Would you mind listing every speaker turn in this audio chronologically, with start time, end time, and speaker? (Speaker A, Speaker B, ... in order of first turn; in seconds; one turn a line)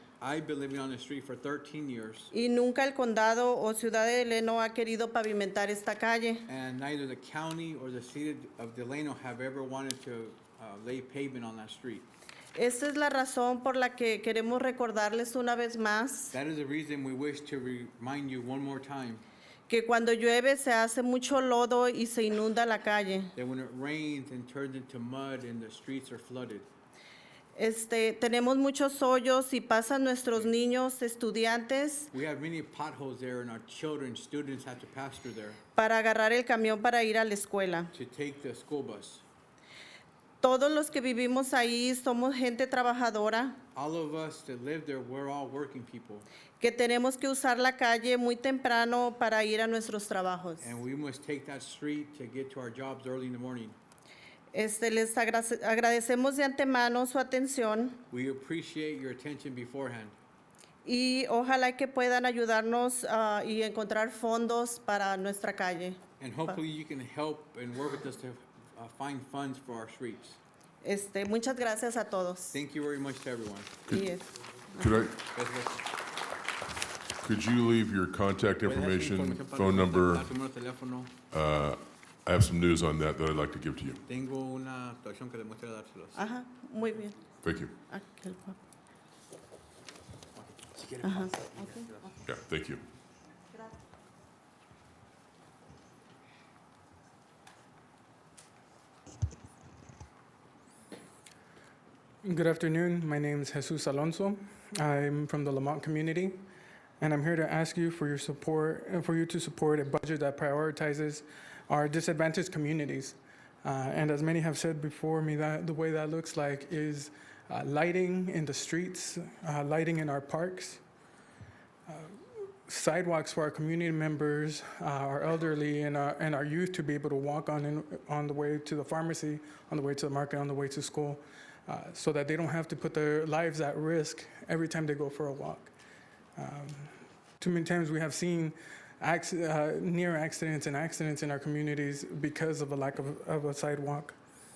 Speaker A: 0.2-2.3
Speaker B: 2.3-6.5
Speaker A: 6.5-12.1
Speaker B: 12.6-16.4
Speaker A: 16.3-19.2
Speaker B: 19.7-23.3
Speaker A: 23.4-26.7
Speaker B: 27.6-32.1
Speaker A: 32.1-35.6
Speaker B: 35.8-37.9
Speaker A: 37.9-39.2
Speaker B: 40.4-43.6
Speaker A: 43.8-46.3
Speaker B: 46.6-50.7
Speaker A: 50.6-53.8
Speaker B: 54.5-58.0
Speaker A: 58.1-60.1
Speaker B: 60.9-66.0
Speaker A: 66.2-70.4
Speaker B: 70.8-72.6
Speaker A: 72.5-73.8
Speaker B: 73.9-74.3
Speaker C: 74.8-75.2
Speaker A: 75.3-75.8
Speaker C: 77.2-80.3
Speaker A: 78.6-81.1
Speaker C: 81.3-84.0
Speaker A: 84.1-86.2
Speaker B: 86.2-87.2
Speaker C: 87.4-87.7
Speaker B: 87.9-88.6
Speaker A: 90.4-92.1
Speaker B: 91.0-91.9
Speaker C: 92.2-92.8
Speaker D: 102.2-106.5
Speaker D: 107.0-120.8
Speaker D: 121.9-122.1
Speaker D: 122.7-135.7
Speaker D: 136.4-144.2